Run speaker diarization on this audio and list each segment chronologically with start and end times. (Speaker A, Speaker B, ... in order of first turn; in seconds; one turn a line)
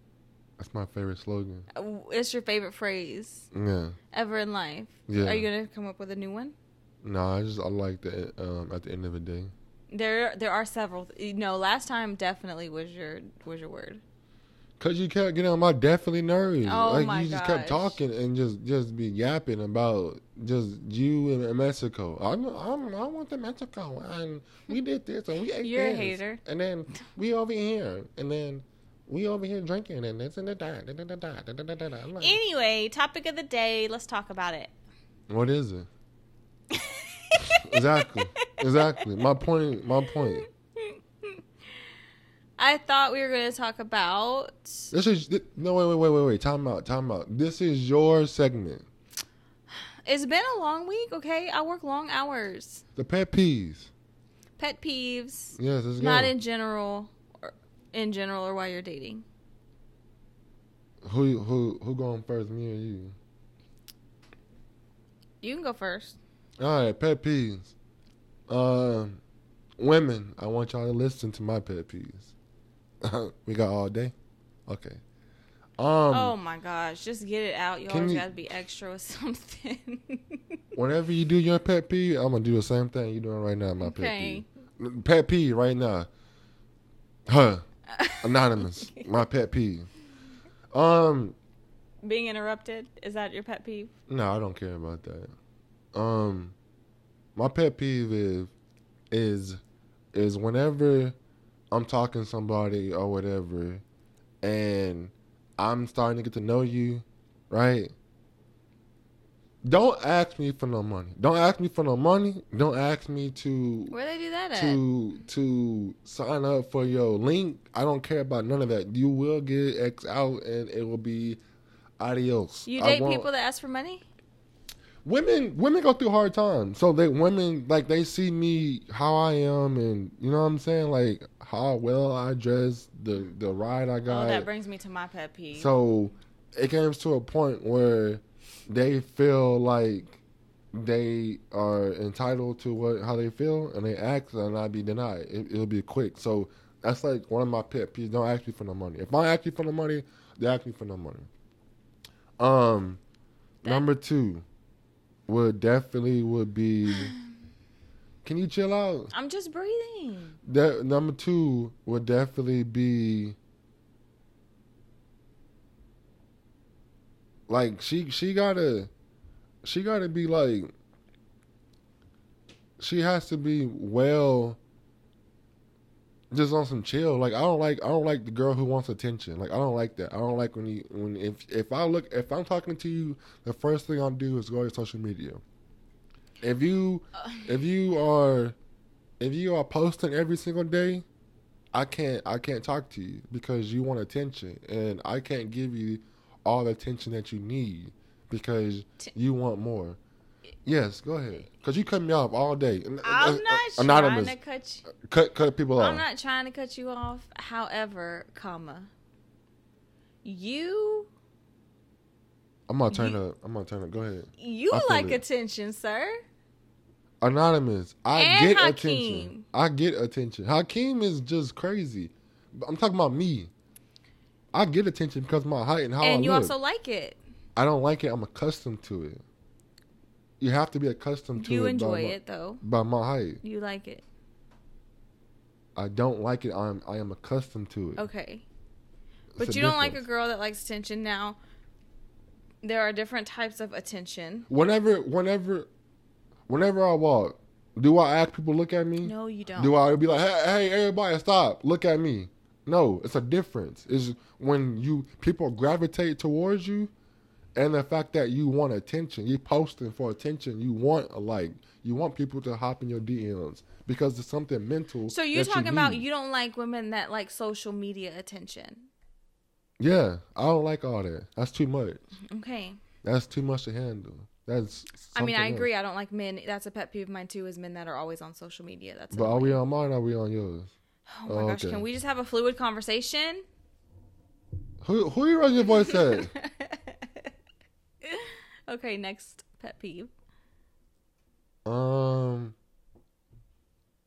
Speaker A: 0.6-1.6
Speaker B: 1.7-3.5
Speaker A: 3.5-4.0
Speaker B: 4.1-6.5
Speaker A: 5.1-5.5
Speaker A: 7.0-9.5
Speaker B: 9.9-14.0
Speaker A: 14.8-32.4
Speaker B: 16.6-18.0
Speaker B: 25.6-26.4
Speaker B: 32.2-34.7
Speaker A: 35.3-35.9
Speaker B: 36.7-39.0
Speaker A: 37.4-40.5
Speaker B: 40.8-41.4
Speaker B: 42.6-44.9
Speaker A: 44.9-48.9
Speaker B: 50.0-52.8
Speaker A: 53.0-53.9
Speaker B: 54.6-59.2
Speaker A: 55.6-56.3
Speaker A: 61.0-63.1
Speaker B: 65.4-66.2
Speaker A: 66.6-67.7
Speaker A: 68.5-69.2
Speaker A: 69.8-72.3
Speaker A: 73.0-74.1
Speaker A: 74.7-75.0
Speaker A: 75.8-76.3
Speaker B: 76.1-80.5
Speaker A: 77.9-78.3
Speaker A: 80.7-86.1
Speaker B: 83.8-84.5
Speaker A: 87.3-87.6
Speaker B: 87.9-89.0
Speaker A: 88.2-89.9
Speaker A: 90.7-91.4
Speaker B: 92.0-93.9
Speaker A: 94.1-95.3
Speaker A: 95.9-96.5
Speaker A: 97.3-98.5
Speaker A: 99.1-99.6
Speaker A: 100.1-101.2
Speaker A: 101.7-103.8
Speaker A: 104.4-107.9
Speaker A: 109.7-113.9
Speaker B: 113.9-114.8
Speaker A: 114.5-121.4
Speaker A: 122.0-123.3
Speaker B: 122.7-124.0
Speaker A: 125.0-134.5
Speaker B: 134.1-135.7
Speaker A: 135.5-140.2
Speaker A: 140.7-151.3
Speaker A: 152.4-153.0
Speaker A: 153.6-154.4
Speaker A: 155.3-157.1
Speaker A: 158.2-159.1
Speaker B: 159.1-160.4
Speaker A: 160.4-163.3
Speaker A: 167.5-168.9
Speaker A: 169.6-170.7
Speaker A: 172.8-174.6
Speaker A: 176.3-185.4
Speaker A: 186.4-188.6
Speaker A: 189.2-191.0
Speaker A: 191.7-200.0
Speaker A: 200.6-204.3
Speaker B: 203.0-204.9
Speaker A: 204.9-206.0
Speaker B: 205.8-208.9
Speaker B: 210.2-211.1
Speaker A: 212.7-215.2
Speaker B: 212.9-213.2
Speaker B: 214.4-216.1
Speaker A: 217.2-223.5
Speaker B: 218.1-219.4
Speaker A: 224.5-226.5
Speaker B: 226.0-227.2
Speaker A: 227.6-229.2
Speaker A: 230.4-233.4
Speaker B: 231.3-232.6
Speaker B: 233.4-234.0
Speaker A: 235.8-238.0
Speaker B: 238.0-238.4
Speaker A: 239.3-240.0
Speaker B: 239.4-241.4
Speaker B: 242.6-244.5
Speaker A: 244.5-245.7
Speaker A: 246.5-256.9
Speaker B: 249.0-249.8
Speaker A: 257.5-266.0
Speaker B: 265.1-268.9
Speaker A: 269.8-272.0
Speaker B: 272.2-272.8
Speaker A: 273.0-275.7
Speaker B: 275.1-279.6
Speaker A: 279.1-280.7
Speaker B: 281.1-283.4
Speaker A: 281.3-281.8
Speaker A: 284.8-286.3
Speaker B: 285.8-287.3
Speaker B: 288.0-290.1
Speaker A: 291.6-292.6